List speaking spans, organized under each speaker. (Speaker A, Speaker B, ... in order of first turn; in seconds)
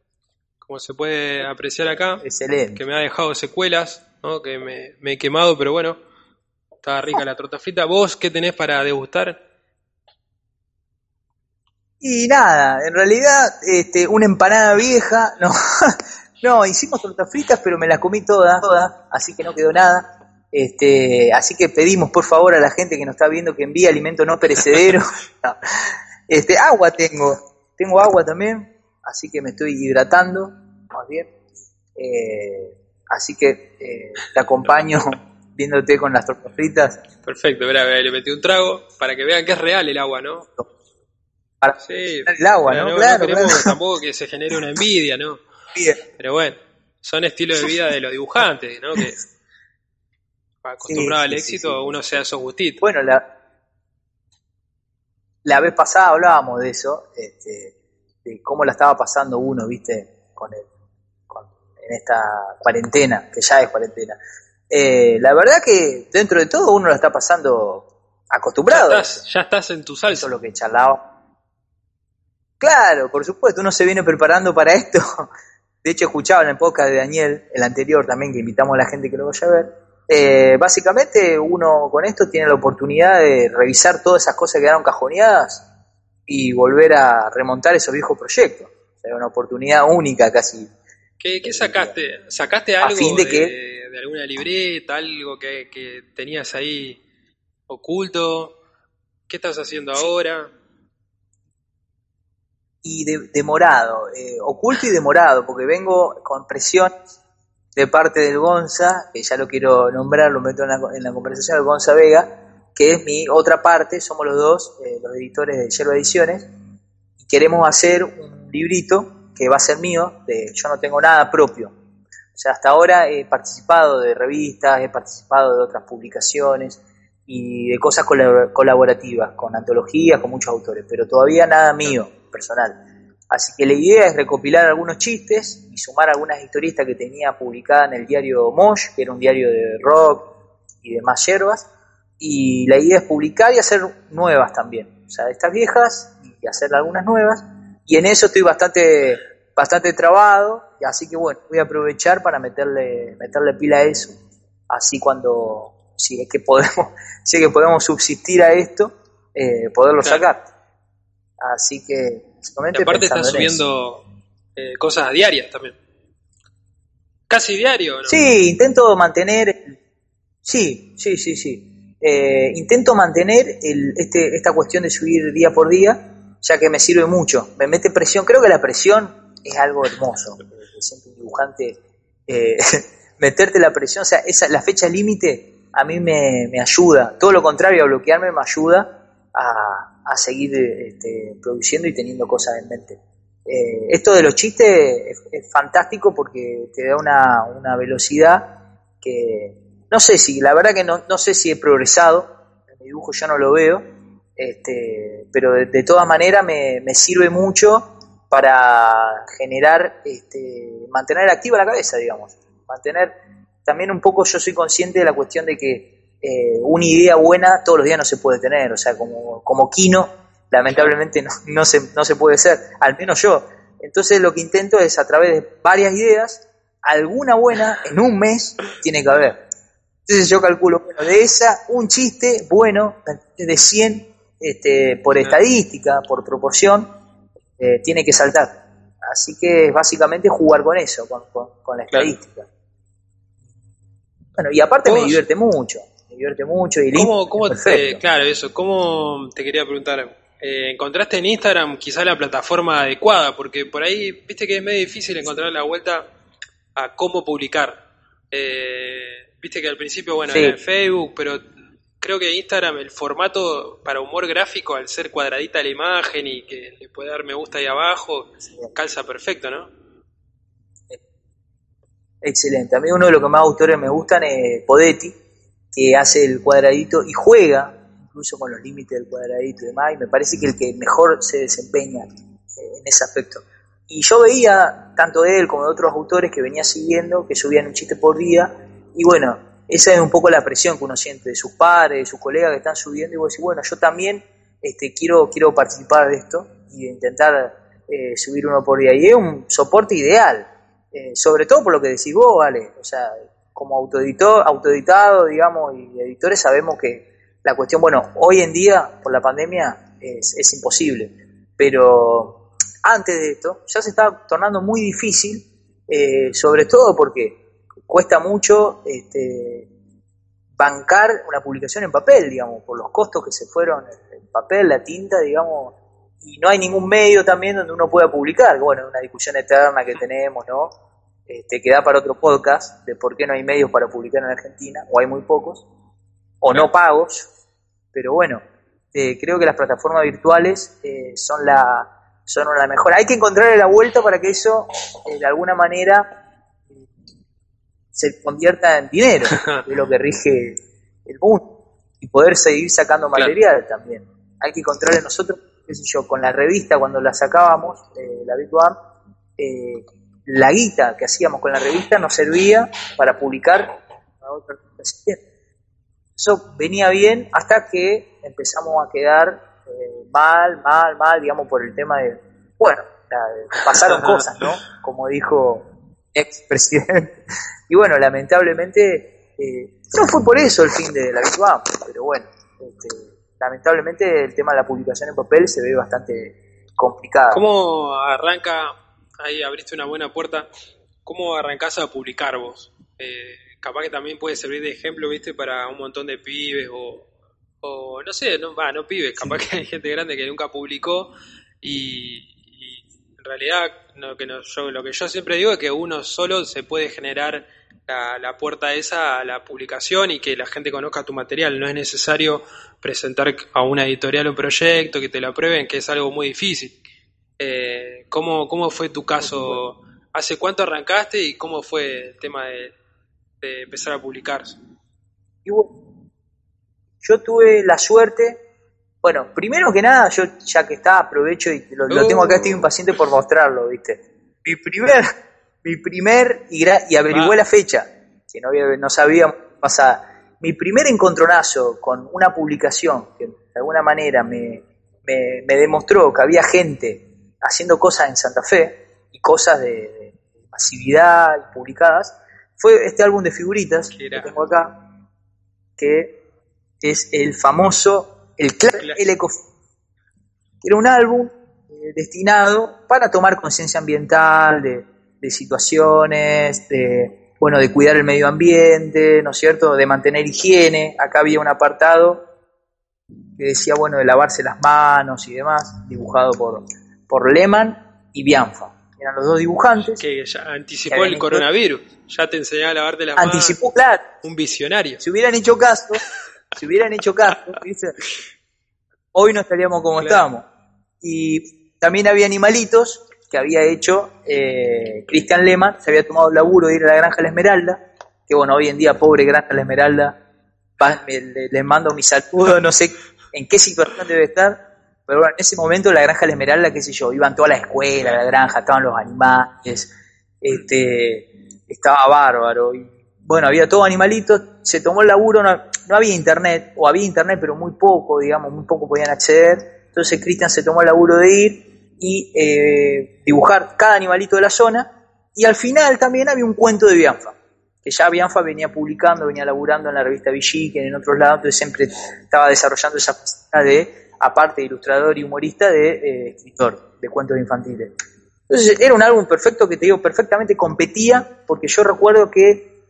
Speaker A: 0.6-2.2, 2.7-6.0, 6.8-9.4, 37.2-40.5, 41.8-45.4, 46.1-49.2, 50.6-52.8, 68.7-70.3, 91.2-97.0, 97.7-98.5, 99.3-100.5, 162.7-164.0, 164.6-165.8, 167.3-168.2, 244.8-245.2, 246.9-256.1, 256.8-257.8, 258.3-261.4, 262.0-269.7, 349.3-349.6, 373.9-374.3, 387.3-390.5, 391.0-397.1, 397.6-401.1, 401.6-416.8, 417.4-422.8, 423.4-424.6, 431.9-432.7, 437.1-437.4, 453.9-454.4, 458.7-459.1, 480.0-483.6, 484.2-485.0, 490.0-490.3
Speaker B: 2.2-2.8, 12.0-31.3, 31.9-37.0, 41.6-43.7, 50.9-52.2, 52.8-53.2, 55.4-60.7, 61.3-64.2, 64.7-69.2, 70.1-71.0, 72.6-75.0, 75.8-85.6, 86.3-90.7, 91.4-91.9, 92.8-93.5, 102.8-107.0, 107.7-116.5, 117.2-121.7, 122.3-132.8, 133.3-140.3, 140.8-141.7, 142.2-154.1, 154.7-160.4, 161.4-163.6, 168.1-169.7, 170.4-198.5, 199.0-203.8, 204.4-229.4, 230.1-236.9, 237.6-242.5, 244.4-248.0, 260.3-260.6, 272.2-275.2, 275.7-319.7, 320.6-330.7, 331.3-335.6, 336.4-337.3, 337.9-346.1, 347.9-351.4, 352.0-358.8, 359.4-365.2, 366.2-377.2, 377.7-387.4, 399.2-399.4, 419.2-419.6, 425.4-425.7, 427.0-428.4, 429.0-435.1, 435.6-454.7, 455.8-456.1, 456.8-459.4, 460.6-472.2, 473.4-480.0, 480.9-481.4, 483.2-484.0, 485.0-486.0, 486.5-487.9, 489.1-490.4, 491.0-500.2, 500.8-509.9, 510.4-537.9, 538.5-542.7